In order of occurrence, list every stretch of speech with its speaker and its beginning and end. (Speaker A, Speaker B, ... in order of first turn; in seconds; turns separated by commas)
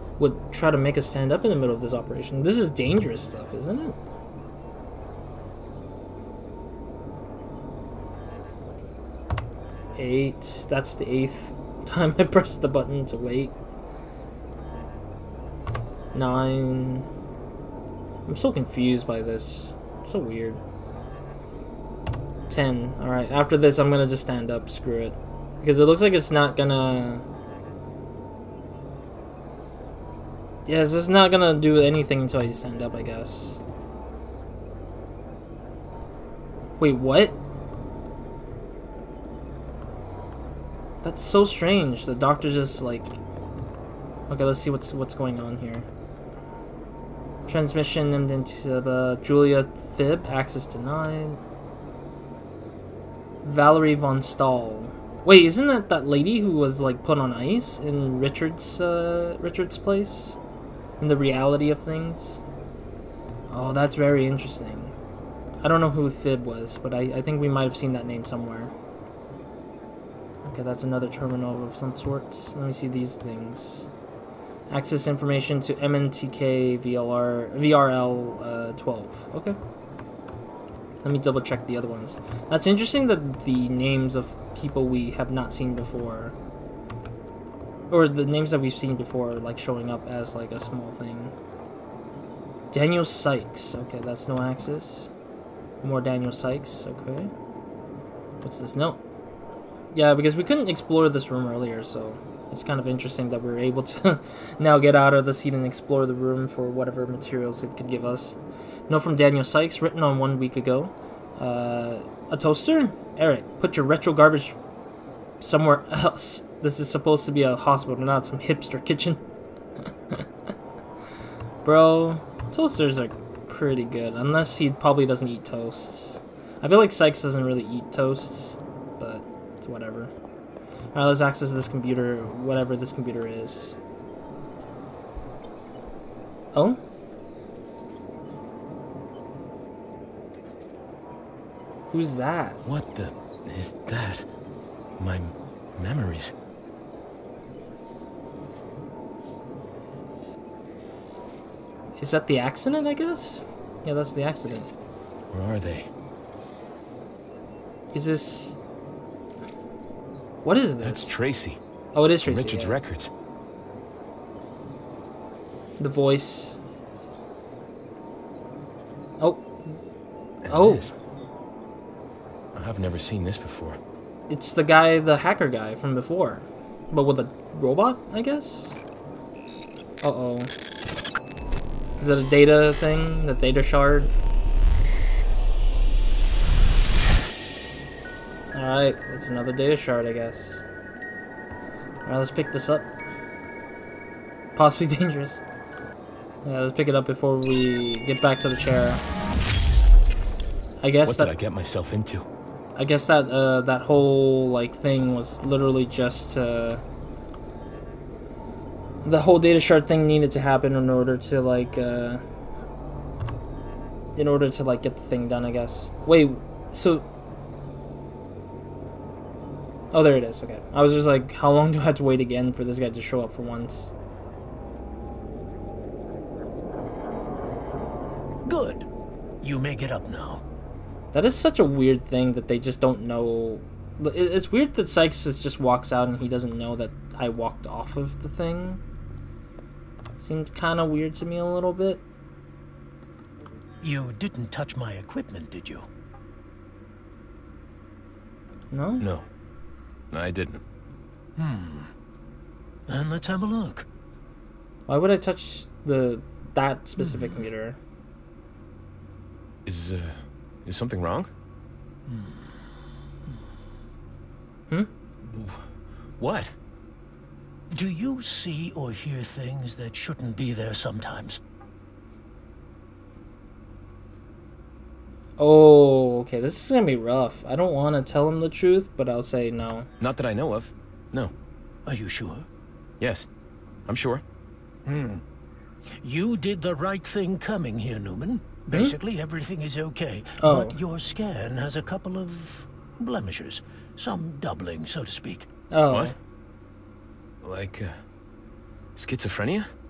Speaker A: 0.2-4.0, Speaker A: 10.0-13.6, Speaker A: 16.1-17.1, Speaker A: 18.3-20.6, Speaker A: 22.5-27.2, Speaker A: 30.7-33.6, Speaker A: 36.8-37.4, Speaker A: 41.0-43.2, Speaker A: 44.3-45.9, Speaker A: 47.5-51.4, Speaker A: 53.4-60.4, Speaker A: 61.0-62.4, Speaker A: 63.5-64.9, Speaker A: 65.6-68.7, Speaker A: 70.4-73.9, Speaker A: 74.7-79.6, Speaker A: 81.0-86.3, Speaker A: 87.9-91.3, Speaker A: 92.7-95.1, Speaker A: 95.8-97.3, Speaker A: 98.4-99.0, Speaker A: 99.9-108.4, Speaker A: 108.9-114.6, Speaker A: 115.4-119.2, Speaker A: 121.6-130.1, Speaker A: 130.9-133.8, Speaker A: 136.5-136.8, Speaker A: 141.9-142.6, Speaker B: 142.6-144.3, Speaker B: 145.0-146.3, Speaker A: 152.0-154.7, Speaker B: 155.3-155.9, Speaker A: 157.9-158.6, Speaker A: 160.4-161.2, Speaker B: 160.8-161.6, Speaker A: 161.9-162.8, Speaker B: 162.2-163.1, Speaker A: 165.8-166.6, Speaker A: 169.2-169.5, Speaker B: 170.4-170.9, Speaker A: 170.5-170.9, Speaker B: 172.6-173.8, Speaker A: 174.3-178.8, Speaker A: 180.0-180.5, Speaker A: 182.0-184.1, Speaker A: 188.5-190.6, Speaker A: 192.1-192.9, Speaker A: 194.6-195.4, Speaker A: 196.4-199.0, Speaker A: 200.8-201.3, Speaker B: 201.1-202.3, Speaker A: 202.8-206.8, Speaker A: 209.0-212.2, Speaker A: 214.2-217.1, Speaker A: 219.9-223.9, Speaker C: 228.5-228.9, Speaker C: 229.4-230.4, Speaker A: 231.1-238.8, Speaker A: 240.2-242.0, Speaker C: 243.8-245.8, Speaker A: 248.7-249.1, Speaker B: 249.0-249.2, Speaker B: 250.1-250.6, Speaker C: 251.4-251.9, Speaker C: 252.9-253.9, Speaker A: 254.9-257.8, Speaker C: 257.0-257.4, Speaker B: 259.6-261.3, Speaker C: 262.1-262.5, Speaker B: 265.3-266.6, Speaker C: 267.7-271.4, Speaker A: 275.4-279.9, Speaker B: 280.0-281.3, Speaker C: 281.9-282.5, Speaker B: 283.0-283.3, Speaker B: 283.9-284.2, Speaker C: 284.9-285.2, Speaker C: 286.0-295.5, Speaker A: 288.7-289.0, Speaker A: 290.4-290.8, Speaker A: 295.7-296.2, Speaker B: 295.9-296.2, Speaker B: 297.4-298.0, Speaker B: 299.0-299.7